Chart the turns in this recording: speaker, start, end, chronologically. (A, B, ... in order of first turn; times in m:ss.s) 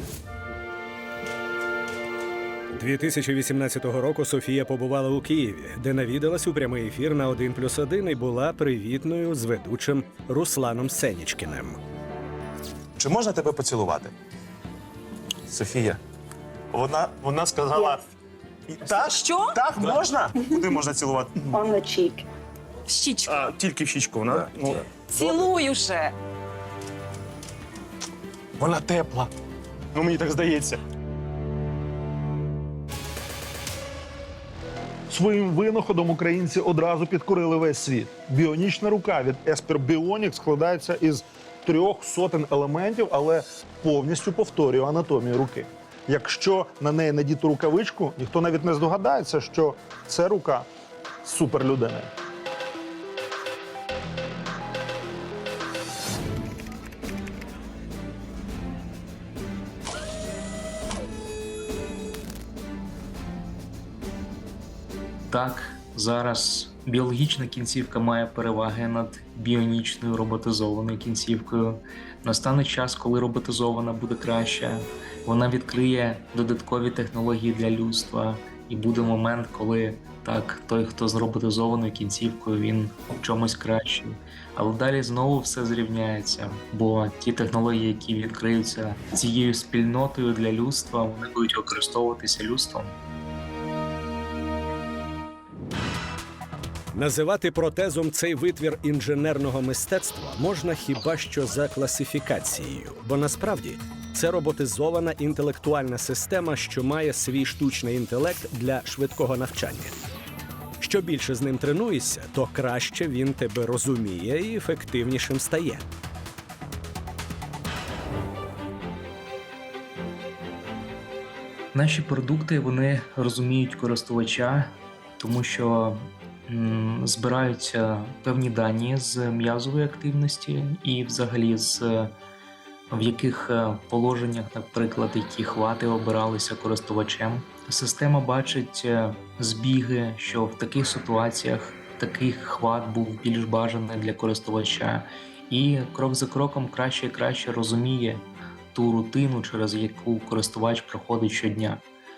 0:02.7-0:11.8 A
0:13.0-0:14.1 B
0:15.5-0:16.0 B
0:16.7-0:18.0 B
0:18.7-0:21.6 B
0:19.0-0:19.6 C
0:21.6-0:22.2 C
0:22.9-0:23.3 C
0:23.2-0:25.5 B
0:25.1-0:26.1 C
0:28.6-0:29.3 B
0:29.9-0:30.8 B
0:35.1-0:50.7 D
0:51.2-0:52.1 D
1:05.3-1:32.9 E
1:36.9-1:49.9 A
1:50.8-1:55.8 A
2:01.7-2:12.2 E
2:12.9-2:31.8 E